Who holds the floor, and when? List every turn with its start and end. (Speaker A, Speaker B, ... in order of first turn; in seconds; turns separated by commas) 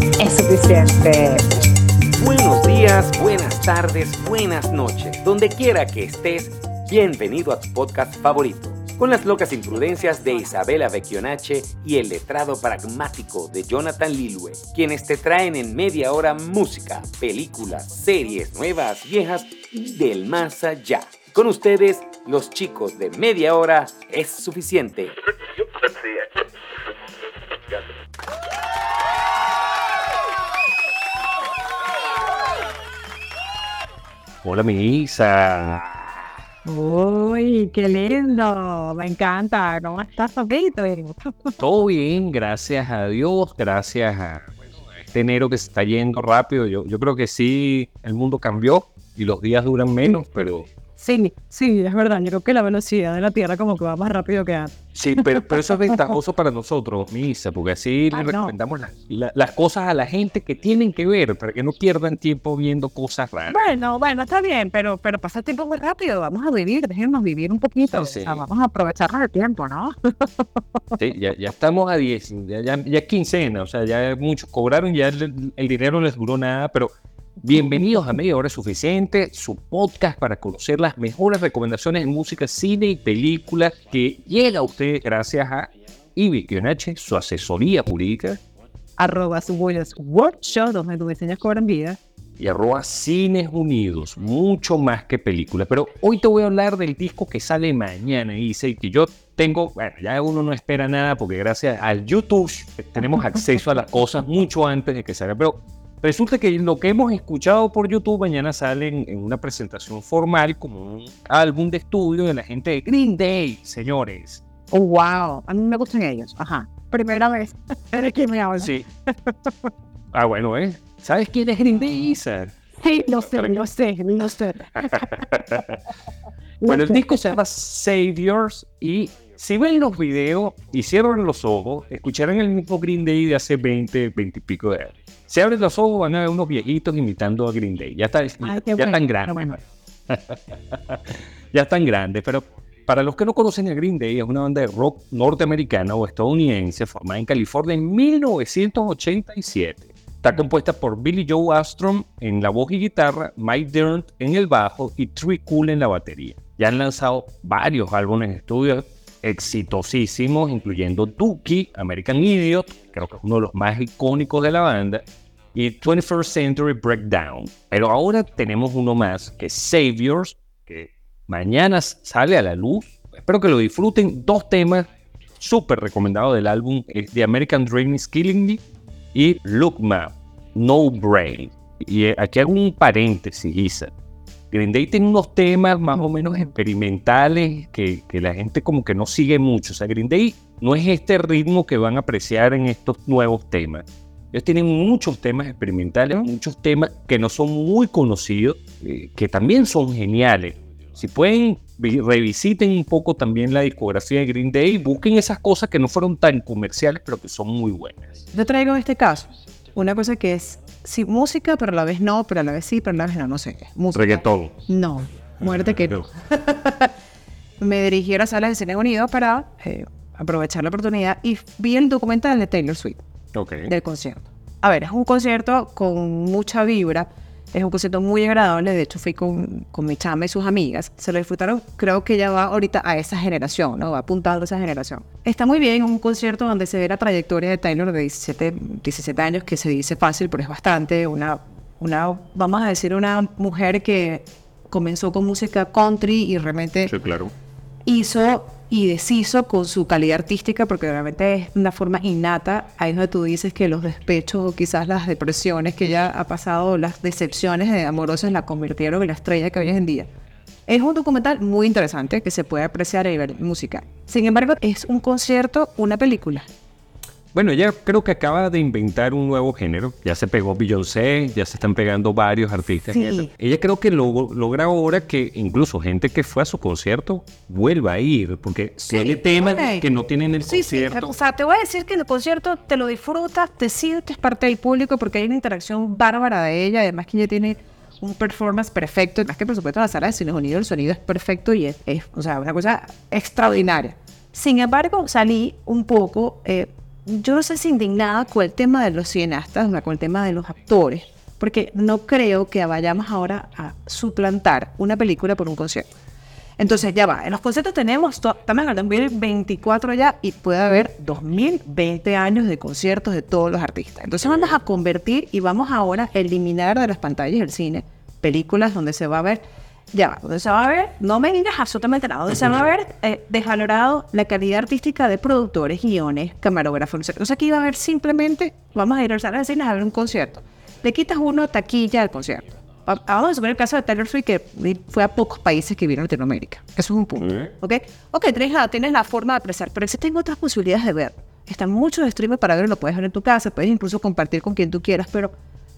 Speaker A: 0.2-1.4, Speaker B: 2.1-25.1, Speaker C: 34.4-35.9, Speaker A: 36.6-41.6, Speaker C: 41.6-50.7, Speaker A: 51.0-56.1, Speaker C: 55.0-63.6, Speaker A: 58.1-58.5, Speaker A: 63.5-71.0, Speaker C: 67.9-68.4, Speaker C: 71.0-88.4, Speaker A: 89.0-92.0, Speaker C: 92.4-114.4, Speaker A: 114.7-119.7, Speaker C: 118.6-118.9, Speaker C: 120.1-122.5, Speaker A: 122.8-125.3, Speaker C: 124.8-125.8, Speaker A: 126.6-127.4, Speaker C: 126.7-174.9, Speaker A: 138.4-139.6, Speaker C: 175.4-178.6, Speaker C: 179.1-183.9, Speaker C: 184.5-208.2, Speaker A: 208.3-216.9, Speaker C: 213.9-214.6, Speaker C: 215.4-216.1, Speaker A: 217.6-223.0, Speaker C: 223.3-223.7, Speaker A: 223.7-246.9, Speaker C: 246.9-247.3, Speaker A: 247.9-260.1, Speaker A: 260.7-266.5, Speaker C: 267.3-281.1, Speaker A: 272.9-273.3, Speaker A: 278.9-279.9, Speaker A: 280.4-305.9, Speaker A: 306.6-345.3, Speaker C: 314.2-314.6, Speaker C: 337.2-337.5